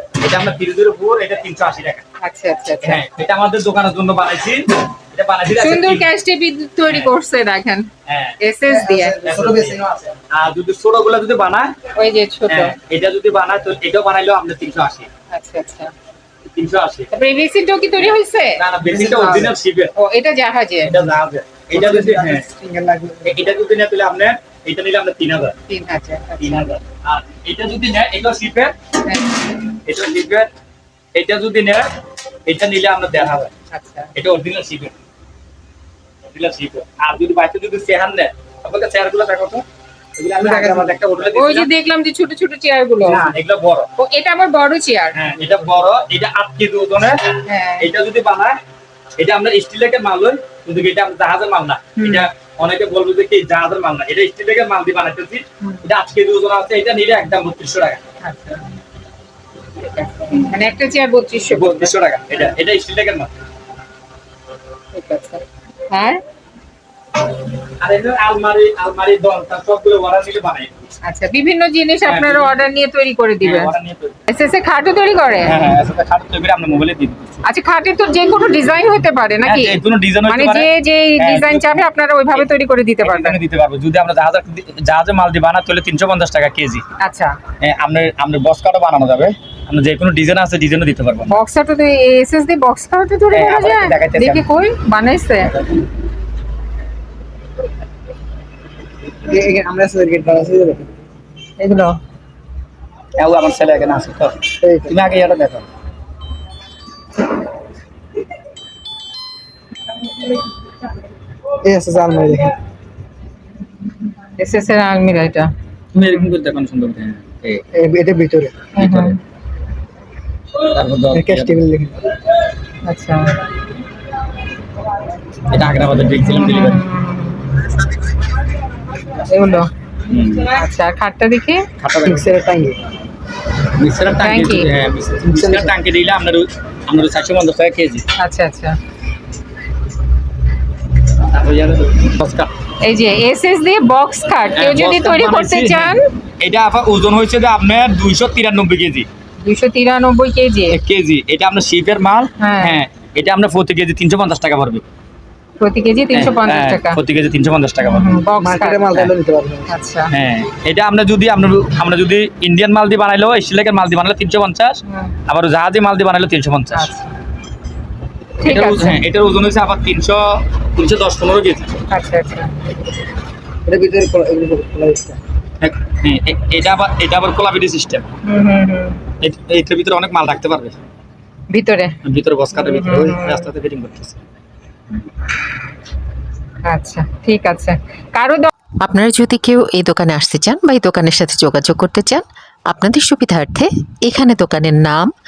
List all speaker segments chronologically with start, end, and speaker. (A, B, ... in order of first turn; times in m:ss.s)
0:00.2-0:02.0 A
0:02.2-0:03.0 B
0:02.8-0:06.1 A
0:05.6-0:07.9 B
0:06.9-0:07.1 A
0:08.0-0:08.4 A
0:08.4-0:09.2 B
0:08.6-0:10.2 C
0:09.2-0:11.7 A
0:12.0-0:12.7 B
0:12.5-0:15.1 A
0:15.3-0:15.9 B
0:16.5-0:17.1 A
0:17.1-0:18.6 B
0:18.0-0:19.9 A
0:18.8-0:19.5 C
0:19.9-0:20.9 B
0:20.8-0:22.4 A
0:21.7-0:23.4 C
0:23.2-0:25.5 A
0:25.7-0:26.7 B
0:26.4-0:28.7 A
0:29.0-0:29.5 B
0:29.8-0:30.5 A
0:31.1-0:31.9 A
0:32.4-0:33.5 A
0:33.7-0:34.1 B
0:34.1-0:34.9 A
0:36.3-0:39.6 A
0:40.2-0:41.7 A
0:40.4-0:40.9 C
0:41.3-0:43.2 B
0:43.0-0:43.9 A
0:44.0-0:45.2 B
0:45.1-0:48.6 A
0:47.4-0:47.9 B
0:49.2-0:58.0 A
0:52.0-0:52.3 B
0:58.2-0:58.6 B
0:59.8-1:01.9 B
1:01.4-1:03.3 A
1:04.9-1:06.2 B
1:07.8-1:10.7 A
1:11.0-1:13.7 B
1:12.0-1:12.6 A
1:13.4-1:14.2 A
1:14.3-1:15.6 B
1:15.4-1:17.4 A
1:17.4-1:23.4 B
1:19.4-1:22.5 A
1:23.0-1:26.8 A
1:27.0-1:27.4 B
1:27.6-1:31.3 A
1:31.3-1:35.5 B
1:33.3-1:34.4 A
1:39.2-1:40.9 C
1:41.6-1:42.0 B
1:43.2-1:45.6 A
1:44.6-1:45.0 C
1:51.6-1:52.5 C
1:54.4-1:56.3 B
1:55.9-1:57.6 A
1:57.7-1:58.7 C
1:58.8-1:59.2 A
1:58.8-1:59.2 B
2:00.6-2:01.6 A
2:01.1-2:01.9 C
2:02.8-2:03.4 B
2:05.5-2:06.8 A
2:06.2-2:07.5 B
2:09.3-2:09.7 B
2:10.0-2:10.6 A
2:10.5-2:11.7 B
2:11.8-2:12.3 A
2:12.0-2:12.8 C
2:13.8-2:18.0 A
2:14.2-2:14.7 B
2:15.3-2:15.7 C
2:18.2-2:18.8 B
2:21.2-2:22.5 A
2:22.8-2:26.1 B
2:24.5-2:29.1 A
2:29.4-2:30.8 B
2:30.7-2:34.8 A
2:32.4-2:32.8 B
2:35.6-2:37.0 B
2:36.1-2:38.1 A
2:37.8-2:39.0 B
2:38.4-2:39.7 C
2:39.7-2:40.1 B
2:40.1-2:46.9 A
2:44.9-2:45.1 B
2:46.7-2:47.1 B
2:48.4-2:49.0 B
2:48.4-2:51.7 A
2:51.9-2:52.5 B
2:53.6-2:55.2 C
2:55.6-2:58.1 A
2:58.2-2:59.0 B
2:59.2-3:00.8 A
3:01.5-3:02.0 B
3:02.0-3:04.2 A
3:02.5-3:03.4 B
3:06.6-3:08.5 B
3:08.8-3:15.1 D